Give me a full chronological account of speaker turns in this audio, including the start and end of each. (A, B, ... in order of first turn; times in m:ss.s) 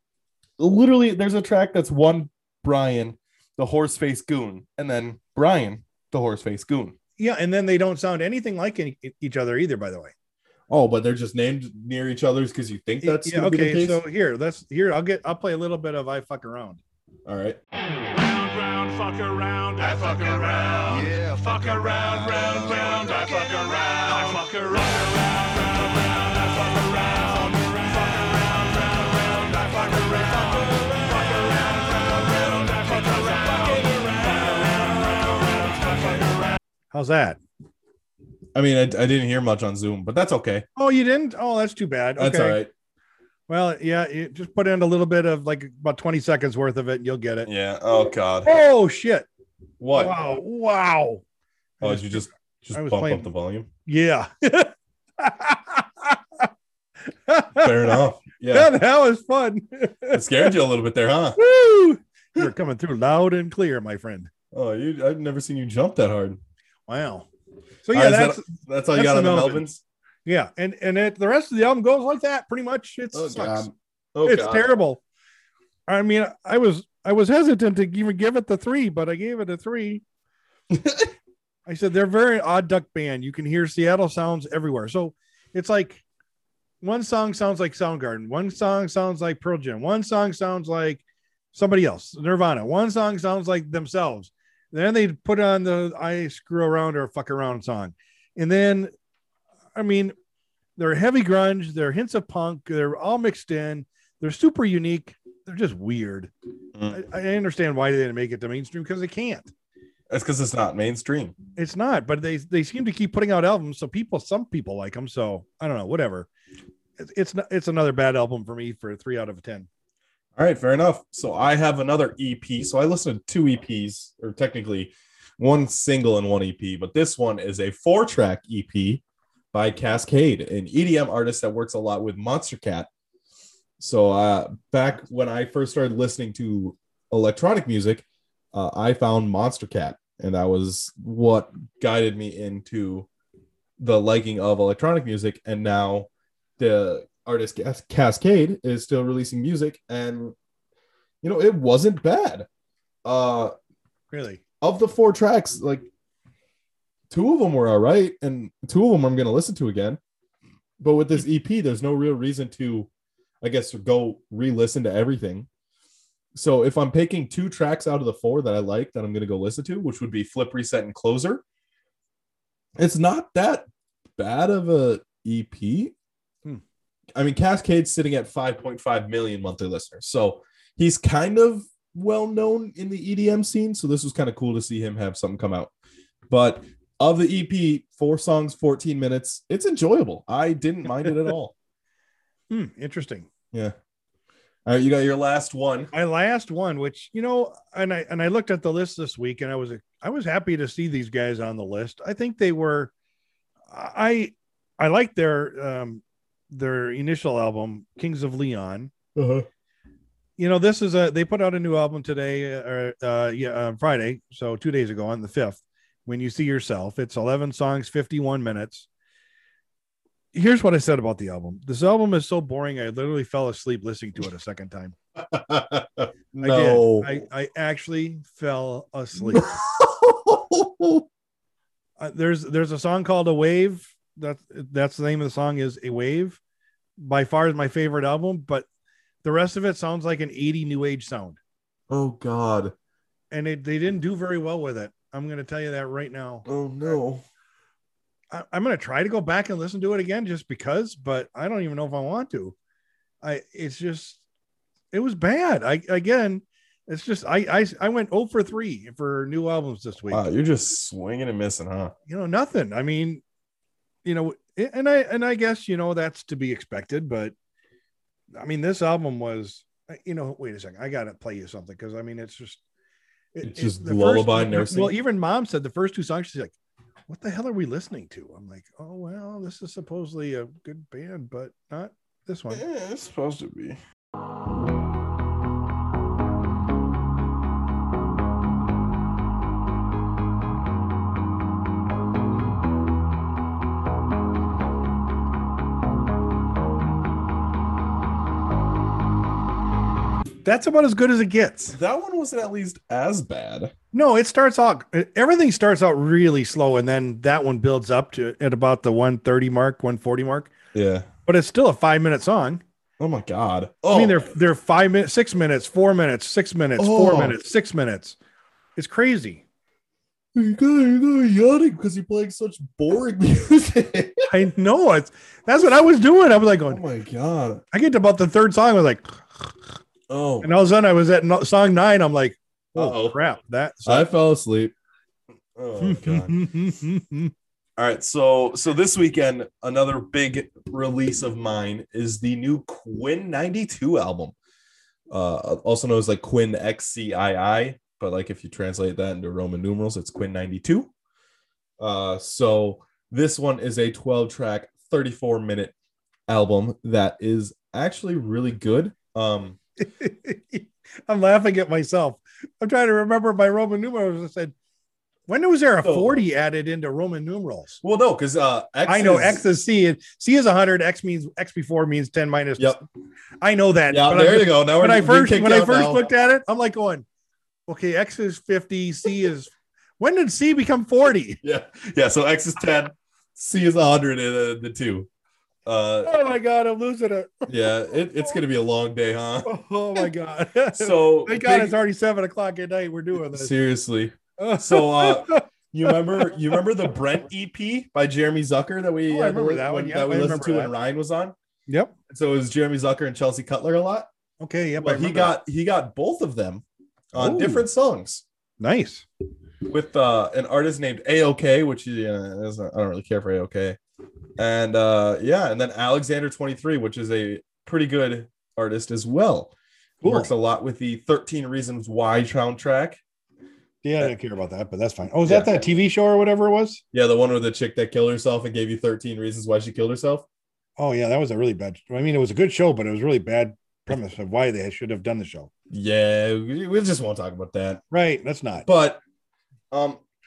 0:00.6-0:07.0 A
0:07.2-0:10.1 B
0:10.7-0:14.0 A
0:13.0-0:16.8 B
0:17.2-0:17.6 A
0:18.4-0:21.0 B
0:18.4-0:20.6 C
0:21.4-0:25.3 C
0:22.5-0:37.4 B
0:26.4-0:28.8 C
0:38.5-0:40.6 A
0:40.8-0:42.6 B
0:42.2-0:42.7 A
0:43.5-0:47.5 B
0:47.4-0:48.5 A
0:48.4-0:49.3 B
0:49.8-0:50.1 A
0:49.9-0:51.2 B
0:51.8-0:53.3 B
0:51.8-0:53.7 A
0:53.8-0:56.5 B
0:57.0-1:00.5 B
0:57.6-0:58.7 A
1:00.1-1:01.4 A
1:01.4-1:04.3 B
1:04.5-1:06.4 A
1:06.9-1:07.3 B
1:07.8-1:09.7 B
1:07.9-1:09.8 A
1:10.2-1:13.7 B
1:13.1-1:14.7 A
1:14.2-1:15.0 B
1:15.9-1:20.0 B
1:20.7-1:21.1 A
1:21.6-1:26.0 B
1:26.8-1:31.0 B
1:31.5-1:38.9 B
1:39.7-1:40.1 B
1:40.8-1:46.3 B
1:46.7-1:47.0 A
1:46.9-1:49.5 B
1:50.1-1:51.3 A
1:51.6-1:56.3 B
1:57.0-1:59.7 B
2:00.4-2:12.9 A
2:13.8-2:23.1 A
2:23.8-2:26.1 A
2:26.6-2:30.3 A
2:31.2-2:32.5 A
2:33.0-2:33.5 A
2:34.1-2:34.4 B
2:34.6-2:35.9 A
2:37.1-2:40.0 A
2:40.8-2:42.9 A
2:43.4-2:45.5 A
2:46.3-2:51.4 A
2:52.8-2:53.7 A
2:54.2-2:55.9 A
2:57.2-3:05.7 A
3:06.3-3:11.5 A
3:12.5-3:13.3 B
3:14.6-3:15.9 A
3:15.9-3:22.9 B
3:23.7-3:28.9 B
3:29.2-3:29.5 A
3:30.4-3:38.9 B
3:40.3-3:44.9 B
3:45.3-3:47.1 A
3:46.4-3:49.5 B
3:49.3-3:51.0 A
3:52.0-3:56.4 B
3:57.0-3:58.6 B
3:59.2-4:01.4 B
4:01.9-4:02.7 A
4:03.3-4:07.0 B
4:06.4-4:07.2 A
4:08.3-4:12.5 B
4:13.2-4:14.2 B
4:14.9-4:20.2 B
4:20.1-4:21.9 A
4:22.1-4:23.2 B
4:24.0-4:27.3 B
4:28.3-4:32.6 B
4:33.3-4:36.5 B
4:33.4-4:34.9 A
4:37.1-4:42.6 B
4:42.5-4:43.8 A
5:00.4-5:01.7 B
5:01.7-5:03.7 A
5:03.9-5:10.5 B
5:10.7-5:11.1 A
5:11.2-5:12.6 B
5:13.0-5:14.3 A
5:13.9-5:18.2 B
5:16.8-5:17.4 A
5:18.8-5:19.4 B
5:20.3-5:24.3 A
5:24.3-5:26.8 B
5:26.7-5:27.6 A
5:27.7-5:29.7 B
5:30.1-5:30.5 A
5:30.4-5:34.1 B
5:32.7-5:33.2 A
5:33.8-5:34.7 A
5:35.6-5:36.5 A
5:35.8-5:37.3 B
5:37.8-5:44.3 A
5:45.1-5:50.9 A
5:51.8-5:55.7 A
5:56.3-5:59.6 A
5:59.8-6:04.5 B
6:05.3-6:07.8 B
6:05.8-6:06.2 A
6:07.8-6:09.4 A
6:08.8-6:12.7 B
6:12.6-6:12.8 A
6:13.4-6:17.0 B
6:13.9-6:16.0 A
6:17.7-6:21.4 B
6:21.4-6:25.1 A
6:25.6-6:26.1 A
6:26.0-6:27.5 B
6:27.5-6:29.5 A
6:29.4-6:33.5 B
6:30.7-6:31.7 A
6:33.3-6:41.3 A
6:34.4-6:36.6 B
6:39.1-6:40.7 B
6:41.7-6:41.9 B
6:42.1-6:44.1 A
6:44.4-6:45.4 B
6:44.8-6:48.2 A
6:47.2-6:47.6 B
6:48.6-6:49.0 B
6:49.7-6:53.8 A
6:54.4-6:59.5 A
7:00.0-7:00.3 B
7:00.0-7:03.0 A
7:03.8-7:06.8 B
7:05.2-7:05.6 A
7:06.9-7:10.2 A
7:10.8-7:15.5 B
7:15.7-7:17.8 A
7:17.9-7:18.6 B
7:18.6-7:19.0 A
7:19.7-7:20.0 A